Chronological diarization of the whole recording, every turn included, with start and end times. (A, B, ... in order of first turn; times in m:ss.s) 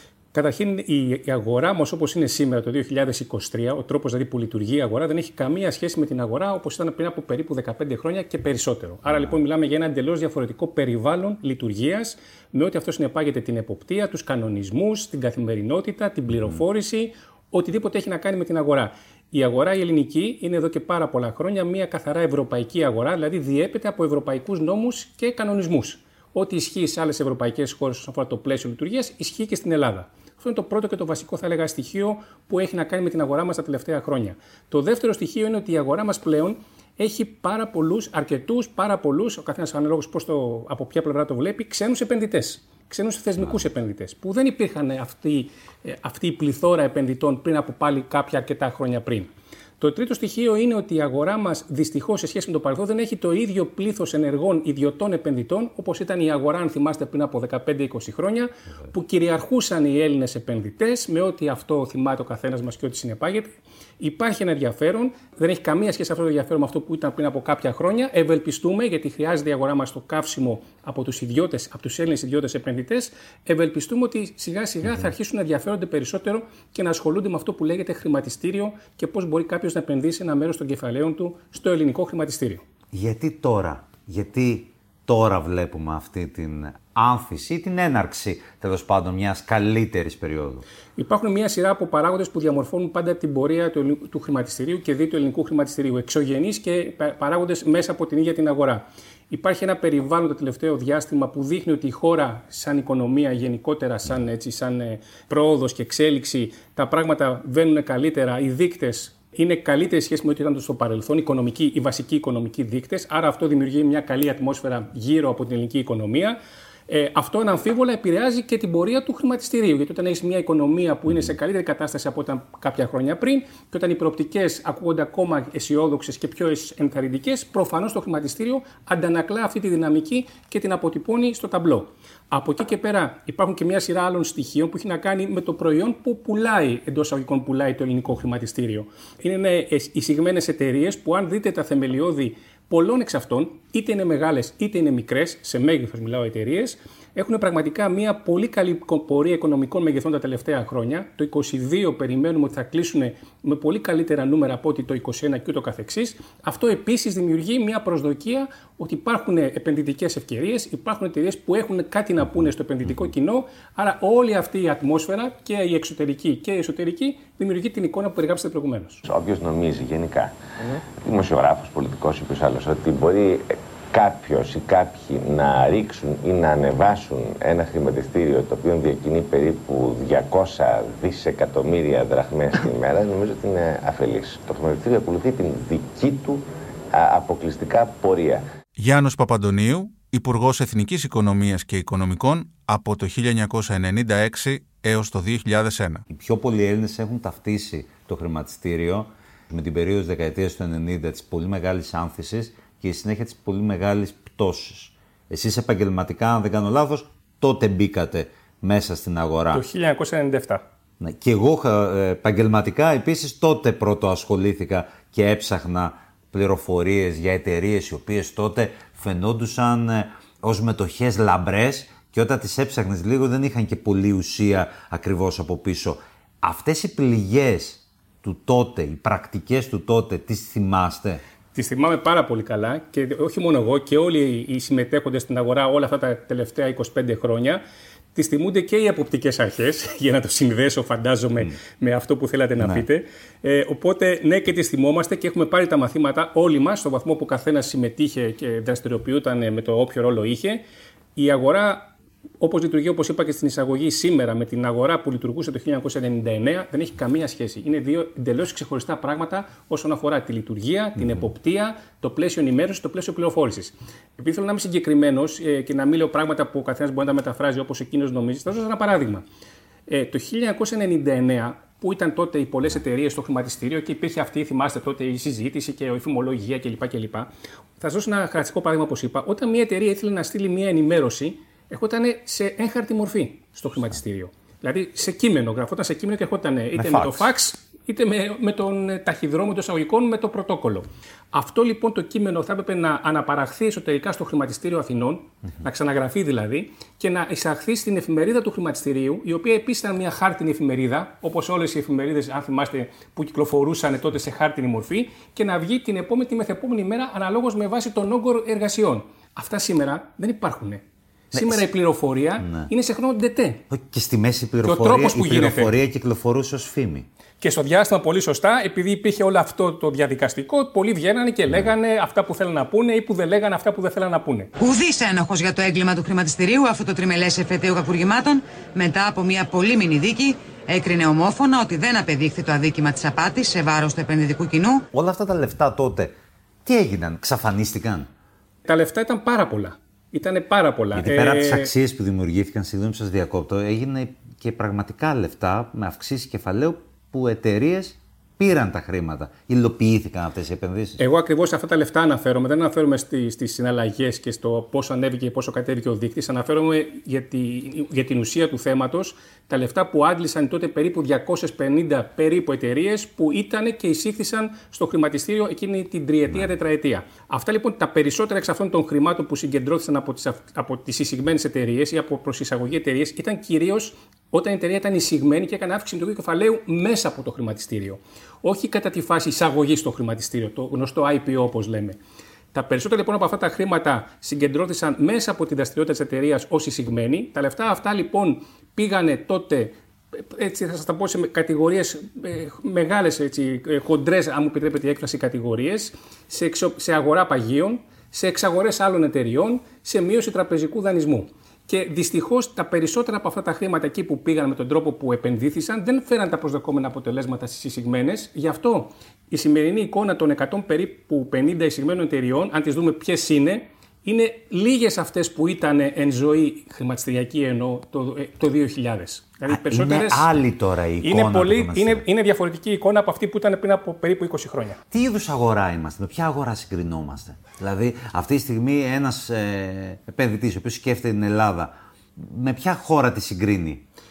0:00.3-1:22.6 A
1:22.9-1:30.6 B
1:31.0-1:56.4 A
1:56.9-2:49.0 A
2:49.0-3:08.4 C
3:08.8-3:16.0 D
3:16.1-3:29.6 B
3:29.5-3:30.6 A
3:31.0-3:51.2 B
3:51.5-3:57.6 A
3:58.1-4:10.6 A
4:11.2-4:29.2 A
4:29.9-4:37.3 A
4:37.8-5:13.6 A
4:46.7-4:47.3 B
5:11.3-5:11.6 B
5:12.4-5:12.7 B
5:13.7-5:17.1 B
5:14.6-5:15.8 A
5:17.4-5:24.5 A
5:24.6-5:34.8 E
5:34.9-5:36.1 B
5:36.6-5:38.1 B
5:38.6-5:41.7 A
5:40.9-5:51.0 B
5:51.0-6:22.0 A
6:22.5-7:00.3 A
6:59.5-7:02.0 B
7:01.0-7:04.8 A
7:04.9-7:13.8 B